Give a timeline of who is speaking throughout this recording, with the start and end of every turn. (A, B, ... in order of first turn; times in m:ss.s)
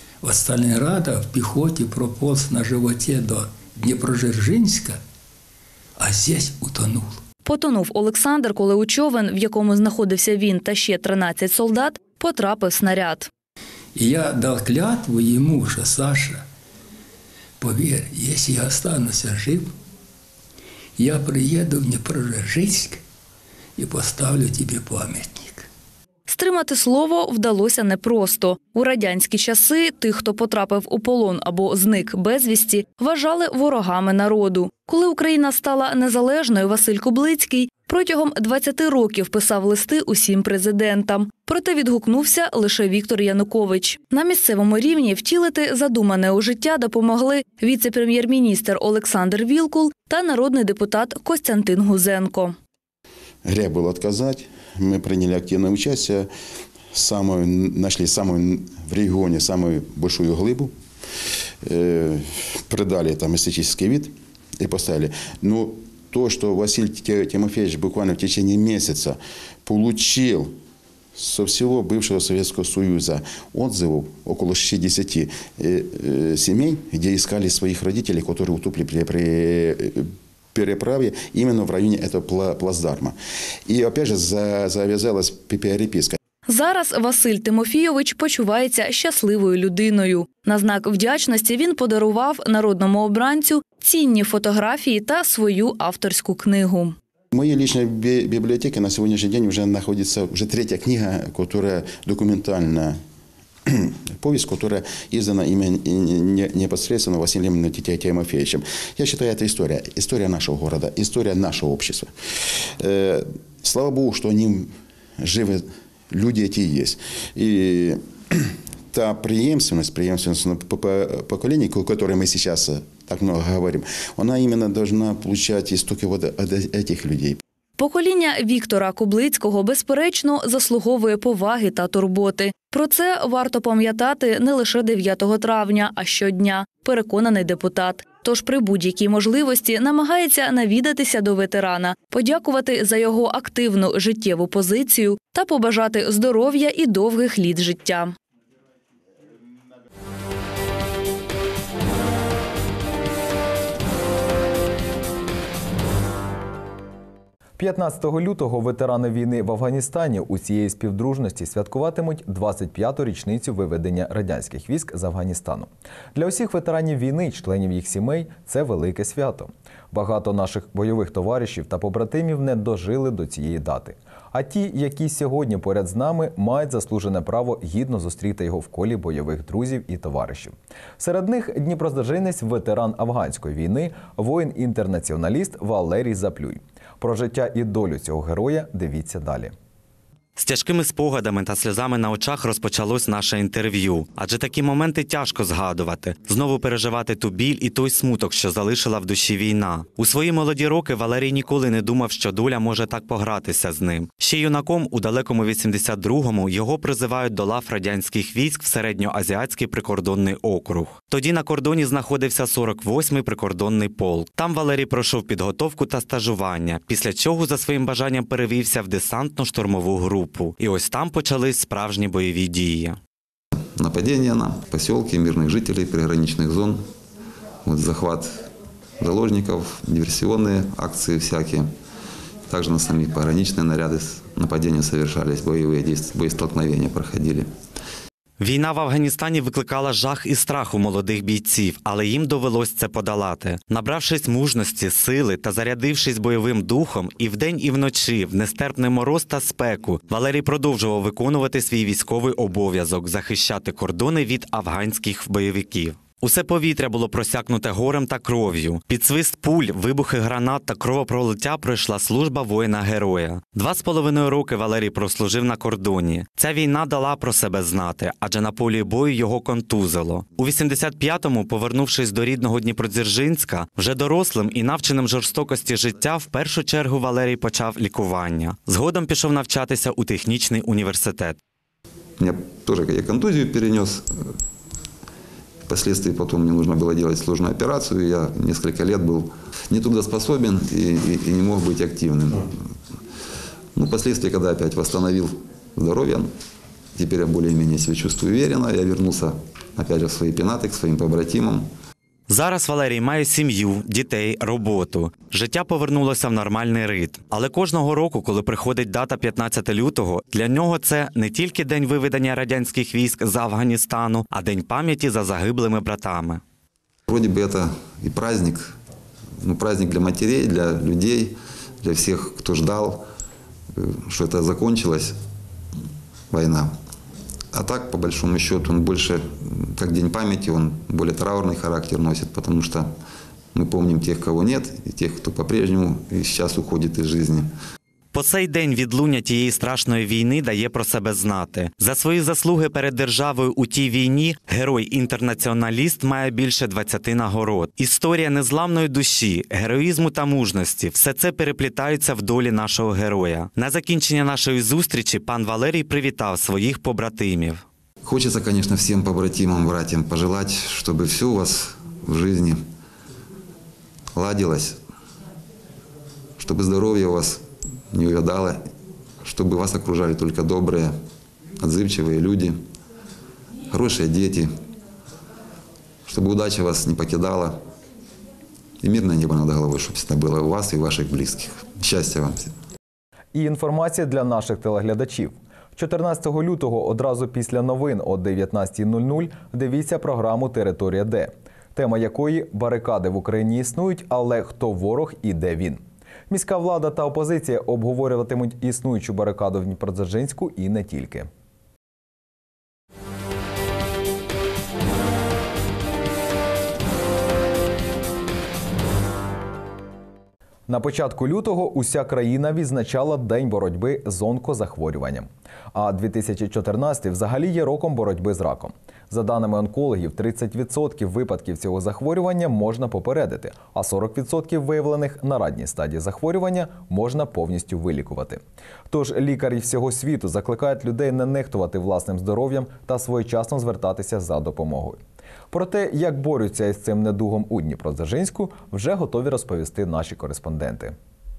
0:00.2-0:05.0 A
0:06.0-0:07.2 A
0:07.4-0:13.3 B
0:14.0-0:16.4 A
0:17.6-0:19.7 A
0:21.0-0:23.0 A
0:23.8-0:25.7 A
0:26.3-0:52.5 B
0:53.4-0:56.3 C
0:56.9-1:00.7 C
1:01.6-1:10.6 C
1:11.1-1:26.2 C
1:26.5-1:37.0 B
1:37.3-1:43.0 C
1:43.6-1:52.1 C
1:52.8-2:07.4 C
2:07.8-2:28.1 B
2:37.6-3:09.5 D
3:10.4-3:43.0 E
3:43.8-3:46.8 F
3:47.6-3:48.4 F
3:49.0-3:51.7 F
3:52.5-3:57.5 F
3:58.4-4:41.4 E
4:42.2-4:44.2 F
4:45.7-4:52.7 F
4:53.7-4:56.3 F
4:57.0-5:01.7 F
5:02.3-5:16.4 E
5:17.1-5:18.7 F
5:19.4-5:23.0 F
5:23.8-5:25.1 F
5:26.3-5:26.7 F
5:27.5-5:32.9 F
5:33.5-5:37.5 F
5:38.1-5:57.6 E
5:58.0-6:02.6 F
6:04.1-6:04.8 F
6:06.4-6:08.6 F
6:09.2-6:10.9 F
6:11.6-6:12.6 F
6:13.7-6:14.5 F
6:16.1-6:17.6 F
6:18.8-6:22.5 F
6:23.3-6:41.3 D
6:50.7-7:15.0 D
7:15.5-7:20.9 D